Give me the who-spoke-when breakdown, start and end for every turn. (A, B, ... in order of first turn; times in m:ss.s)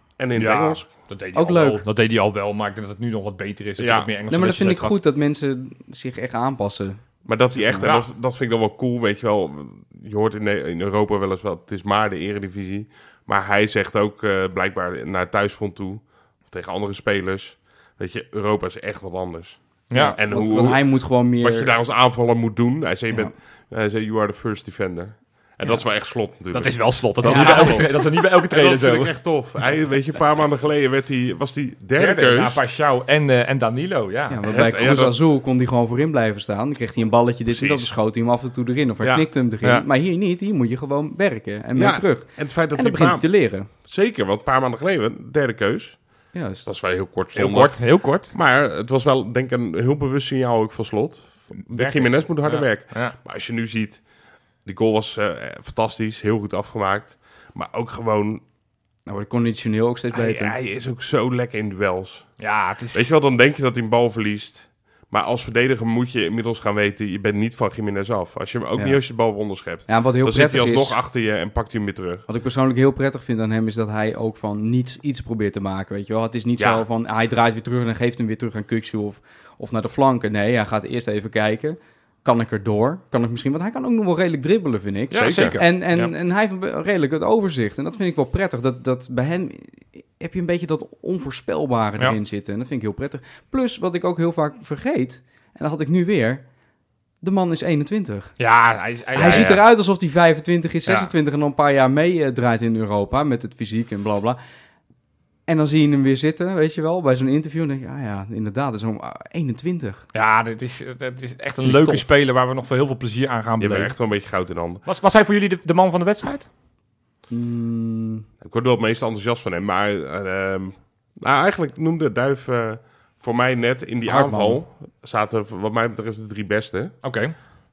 0:00.2-0:00.9 A
0:00.4-0:05.0 B
0:01.3-0:01.8 C
0:03.8-0:04.1 A
0:04.3-0:07.9 C
0:07.2-0:32.6 A
0:19.9-0:20.2 B
0:19.9-0:21.7 C
0:26.5-0:29.2 B
0:27.2-0:27.8 C
0:32.0-0:34.4 B
0:34.3-0:43.7 C
0:34.4-0:35.2 A
0:37.5-0:37.9 A
0:39.0-0:39.4 A
0:41.8-0:54.1 A
0:46.3-0:46.7 C
0:47.4-0:48.3 B
0:51.6-0:53.2 B
0:54.6-0:58.4 A
0:59.1-1:00.6 C
1:00.1-1:12.2 A
1:02.4-1:03.1 B
1:08.8-1:11.0 C
1:12.3-1:36.4 C
1:25.1-1:26.1 B
1:25.2-1:25.6 A
1:37.2-1:38.4 C
1:38.4-1:39.6 B
1:39.1-1:44.4 C
1:40.9-1:41.1 B
1:45.5-1:50.1 C
1:50.1-1:54.0 B
1:51.7-1:52.0 A
1:53.6-1:54.8 A
1:54.8-1:56.5 B
1:57.3-1:58.2 C
1:58.4-2:06.9 A
2:04.1-2:04.6 C
2:07.0-2:07.4 B